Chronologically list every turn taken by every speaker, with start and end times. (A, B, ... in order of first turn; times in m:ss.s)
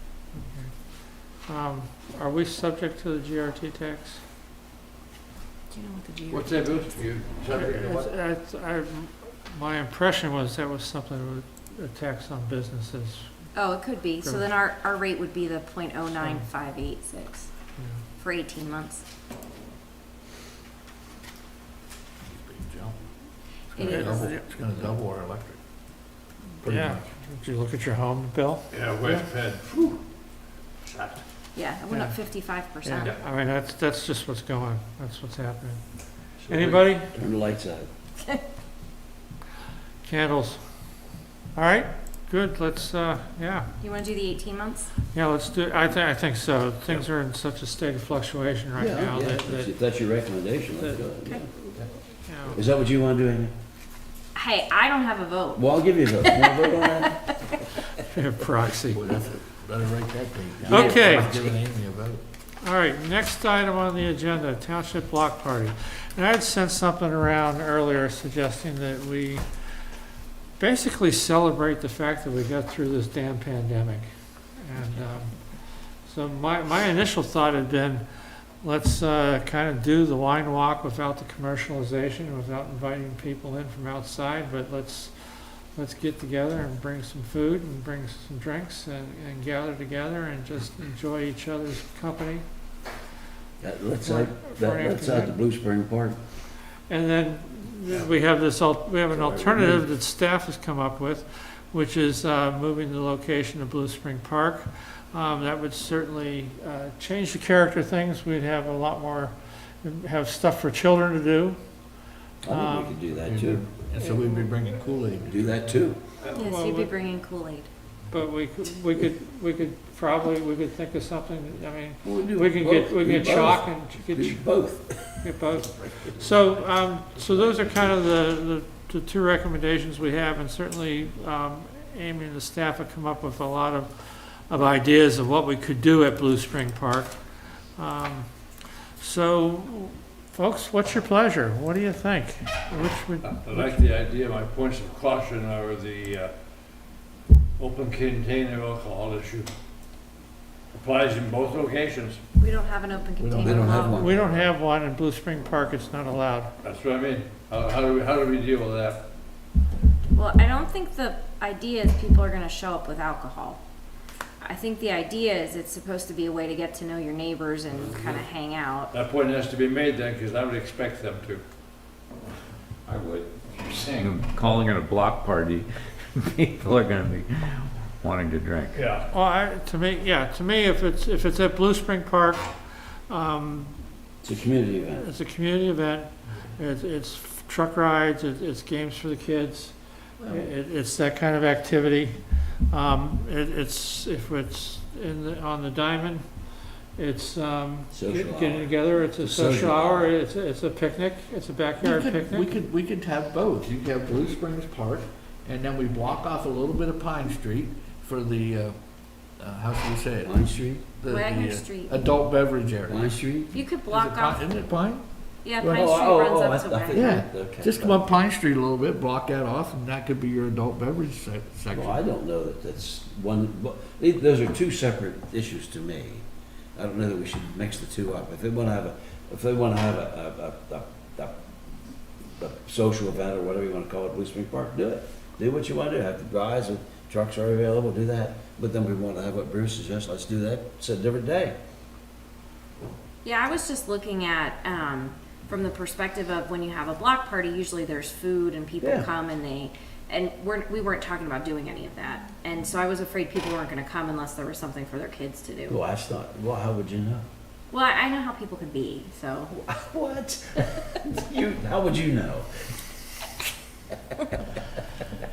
0:00.3-0:04.2 A
0:05.7-0:06.5 B
0:06.3-0:08.1 C
0:07.5-0:13.5 A
0:13.5-0:17.5 B
0:14.2-0:14.5 A
0:16.1-0:16.4 A
0:18.2-0:19.0 B
0:22.3-0:23.0 D
0:23.7-0:25.6 D
0:23.7-0:24.3 B
0:23.8-0:24.5 A
0:26.6-0:29.2 A
0:26.6-0:27.0 D
0:28.7-0:29.9 C
0:30.8-0:31.2 C
0:31.6-0:33.2 B
0:31.9-0:35.8 A
0:36.5-0:37.1 A
0:36.5-0:37.9 E
0:40.0-0:40.6 A
0:41.5-0:43.7 A
0:43.8-0:44.9 B
0:45.1-0:49.7 A
0:48.8-0:51.5 E
0:50.8-0:52.6 A
0:52.5-0:53.5 E
0:54.4-0:55.6 B
0:55.6-0:57.2 E
0:56.2-0:57.5 B
0:58.0-0:59.0 A
0:58.9-1:02.2 D
1:00.6-1:01.4 E
1:00.7-1:01.4 A
1:02.6-1:09.8 A
1:10.6-1:32.5 A
1:33.6-1:36.2 E
1:34.0-1:35.4 A
1:36.9-1:51.6 A
1:39.1-1:39.8 E
1:52.4-1:53.6 E
1:52.4-1:53.0 A
1:53.2-1:55.5 D
1:55.2-1:56.0 E
1:56.3-1:56.9 A
1:56.3-1:57.7 B
1:58.1-2:23.8 A
2:02.0-2:06.2 E
2:23.2-2:26.3 C
2:27.6-2:29.5 C
2:30.7-2:32.2 C
2:32.4-2:34.2 B
2:33.2-2:33.8 D
2:33.4-2:34.3 E
2:33.9-2:36.5 A
2:36.6-2:39.0 C
2:40.1-2:43.6 B
2:44.4-2:48.9 B
2:47.8-2:48.2 C
2:48.9-2:51.4 C
2:52.8-2:58.8 F
2:53.5-2:54.1 C
2:58.7-2:59.1 C
2:59.1-3:03.8 A
3:04.2-3:05.0 E
3:04.9-3:22.5 A
3:10.2-3:10.5 D
3:17.9-3:20.1 E
3:21.8-3:28.8 D
3:29.4-3:33.1 D
3:30.2-3:30.8 E
3:31.1-3:32.0 B
3:32.9-3:33.5 E
3:33.5-3:34.5 B
3:33.8-3:35.0 D
3:35.4-3:37.2 B
3:35.6-3:38.1 E
3:36.9-3:42.0 D
3:41.7-3:46.2 E
3:46.8-3:51.3 E
3:52.4-4:01.5 E
4:03.2-4:15.8 B
4:08.8-4:09.1 E
4:15.7-4:17.2 E
4:17.7-4:19.6 B
4:19.5-4:22.5 E